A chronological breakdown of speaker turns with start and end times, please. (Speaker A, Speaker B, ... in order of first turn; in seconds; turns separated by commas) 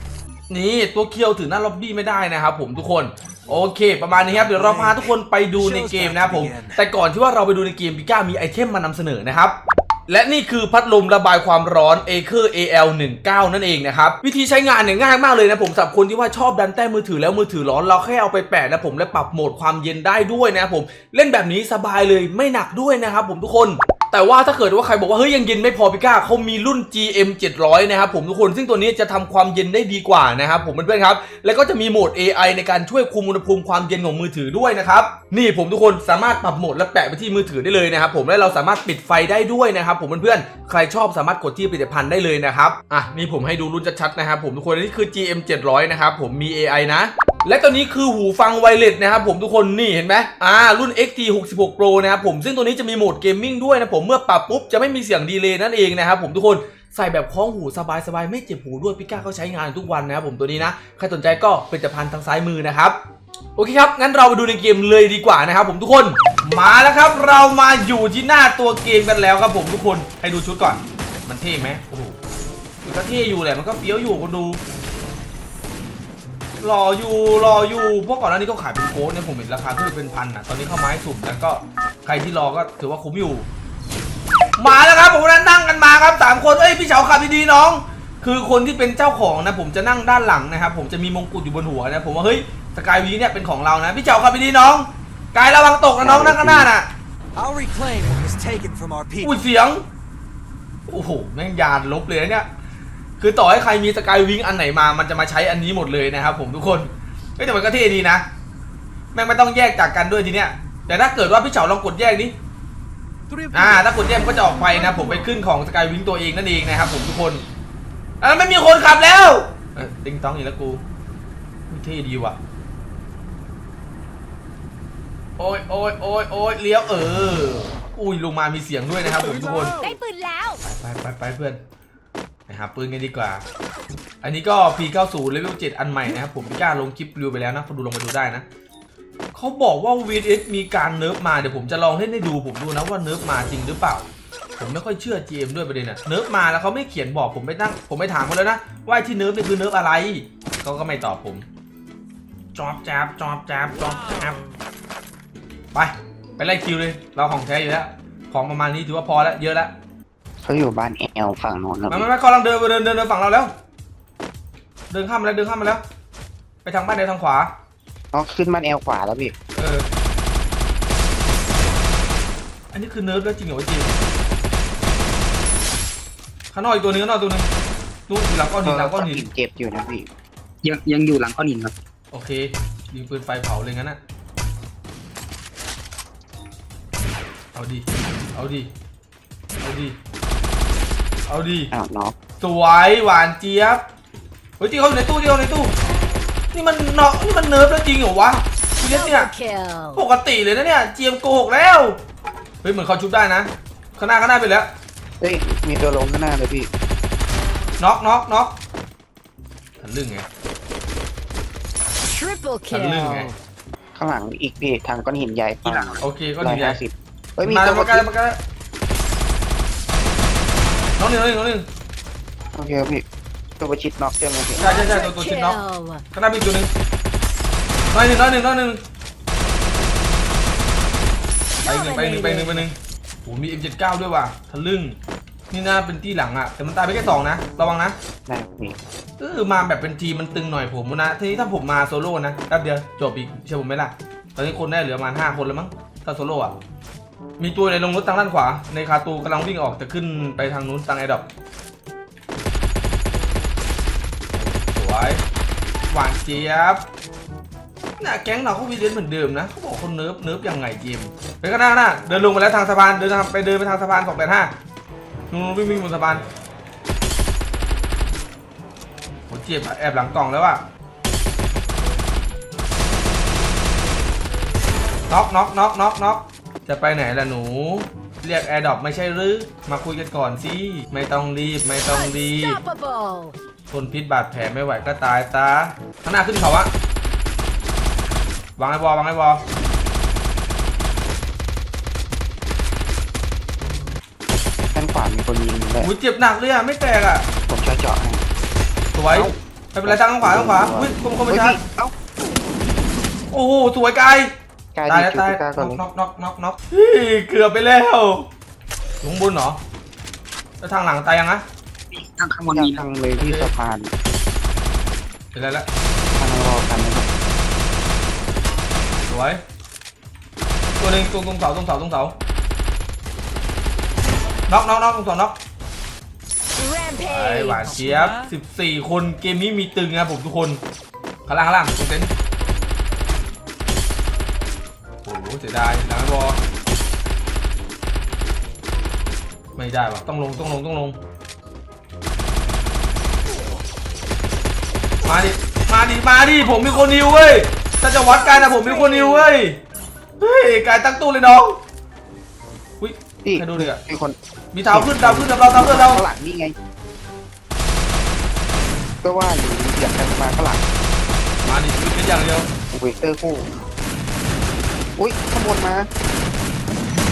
Speaker A: 0.5-63.0, Speaker B: 4.3-6.8, Speaker A: 63.6-72.2, Speaker A: 72.8-74.6, Speaker A: 76.6-83.5, Speaker A: 84.6-96.9, Speaker C: 96.0-96.7, Speaker B: 97.4-99.4, Speaker A: 99.2-99.8, Speaker A: 100.9-102.5, Speaker A: 103.2-108.2, Speaker A: 109.1-112.3, Speaker B: 113.3-115.3, Speaker A: 113.5-117.4, Speaker A: 118.2-120.8, Speaker A: 121.7-122.4, Speaker A: 125.4-129.8, Speaker D: 129.7-130.6, Speaker A: 130.6-131.6, Speaker A: 132.5-133.5, Speaker A: 134.2-138.4, Speaker A: 139.3-144.1, Speaker A: 144.6-151.5, Speaker A: 152.6-154.4, Speaker A: 155.7-159.7, Speaker C: 160.4-162.1, Speaker A: 161.9-163.5, Speaker A: 164.9-165.8, Speaker A: 166.6-167.5, Speaker C: 168.1-169.3, Speaker A: 169.6-169.9, Speaker A: 172.7-173.9, Speaker A: 176.5-177.5, Speaker A: 178.1-179.2, Speaker C: 178.6-180.1, Speaker E: 180.6-181.8, Speaker A: 182.1-184.0, Speaker A: 187.5-188.7, Speaker A: 189.6-190.0, Speaker A: 191.3-191.7, Speaker C: 191.7-192.2, Speaker A: 192.4-193.8, Speaker A: 194.6-195.7, Speaker A: 196.5-199.3, Speaker D: 198.8-200.0, Speaker A: 199.9-202.0, Speaker A: 202.6-204.7, Speaker C: 205.2-206.7, Speaker A: 207.8-208.6, Speaker A: 209.8-210.3, Speaker D: 212.1-213.3, Speaker A: 212.7-213.3, Speaker C: 214.0-218.1, Speaker D: 215.7-215.9, Speaker A: 216.0-216.8, Speaker A: 217.4-218.4, Speaker A: 221.0-221.7, Speaker C: 222.6-223.1, Speaker C: 223.6-224.8, Speaker A: 224.6-225.6, Speaker D: 224.6-226.0, Speaker A: 226.1-226.7, Speaker A: 227.9-228.8, Speaker D: 231.6-232.7, Speaker A: 231.7-235.0, Speaker A: 235.5-238.0, Speaker C: 238.3-238.8, Speaker A: 239.2-246.6, Speaker A: 247.4-251.3, Speaker A: 254.4-255.2, Speaker A: 255.9-256.9, Speaker A: 258.0-264.5, Speaker A: 265.3-266.2, Speaker A: 269.3-270.6, Speaker A: 275.1-282.6, Speaker D: 281.9-283.4, Speaker A: 283.7-286.7, Speaker A: 288.6-289.4, Speaker C: 294.7-295.9, Speaker A: 295.8-297.3, Speaker C: 297.5-298.2, Speaker A: 298.9-301.6, Speaker C: 299.1-301.9, Speaker A: 303.3-304.3, Speaker C: 304.8-305.8, Speaker A: 304.9-308.3, Speaker A: 309.0-309.6, Speaker A: 310.6-311.4, Speaker E: 311.9-312.8, Speaker C: 312.5-313.9, Speaker A: 313.2-313.5, Speaker A: 315.3-315.7, Speaker C: 316.1-317.1, Speaker A: 319.1-319.4, Speaker A: 320.8-322.2, Speaker A: 324.5-325.4, Speaker D: 326.6-327.9, Speaker A: 327.0-330.6, Speaker A: 331.3-332.1, Speaker A: 335.0-336.4, Speaker A: 339.6-341.0, Speaker A: 345.0-349.6, Speaker D: 348.1-349.3, Speaker A: 350.2-351.6, Speaker A: 352.8-353.8, Speaker C: 353.2-356.6, Speaker A: 354.5-356.0, Speaker C: 359.0-360.7, Speaker A: 361.5-362.5, Speaker C: 362.7-363.5, Speaker C: 365.0-365.9